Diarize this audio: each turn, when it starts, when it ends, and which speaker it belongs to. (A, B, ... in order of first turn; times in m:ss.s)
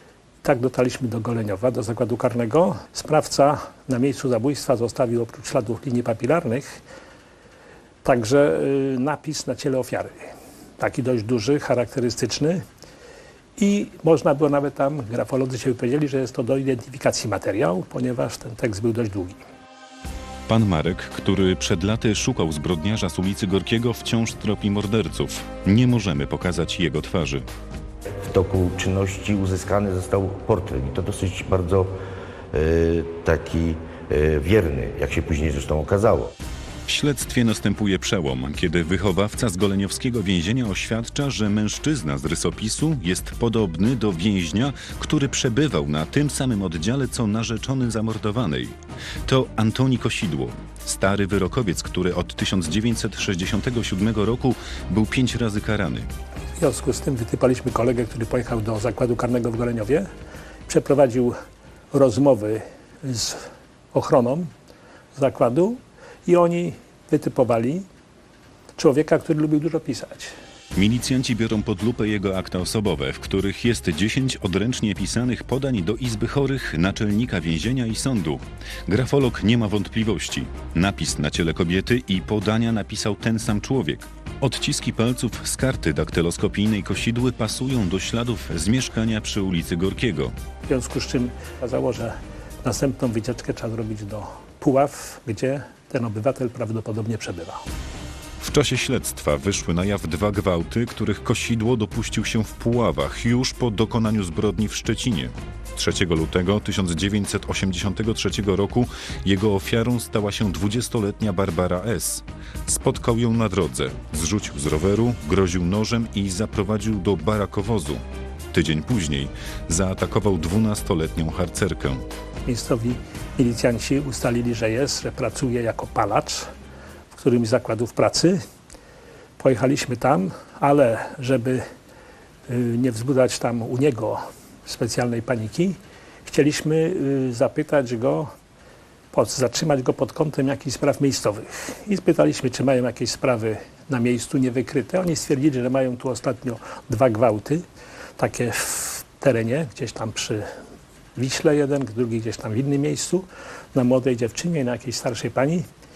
0:00.4-0:06.8 A
0:08.0-0:12.6 A
0:13.6-0:19.4 A
0:20.5-0:27.5 B
0:28.2-0:31.9 C
0:32.5-0:36.3 C
0:36.8-0:56.1 B
0:56.6-1:00.1 A
1:00.7-1:01.3 A
1:01.9-1:04.5 A
1:05.2-1:07.8 A
1:08.8-1:10.3 A
1:10.7-1:30.3 B
1:30.7-1:37.6 A
1:38.4-2:02.1 B
2:02.4-2:06.5 A
2:07.1-2:08.4 A
2:09.4-2:11.6 A
2:12.5-2:18.3 A
2:19.1-2:27.6 A
2:28.2-2:30.5 A
2:31.2-2:35.6 A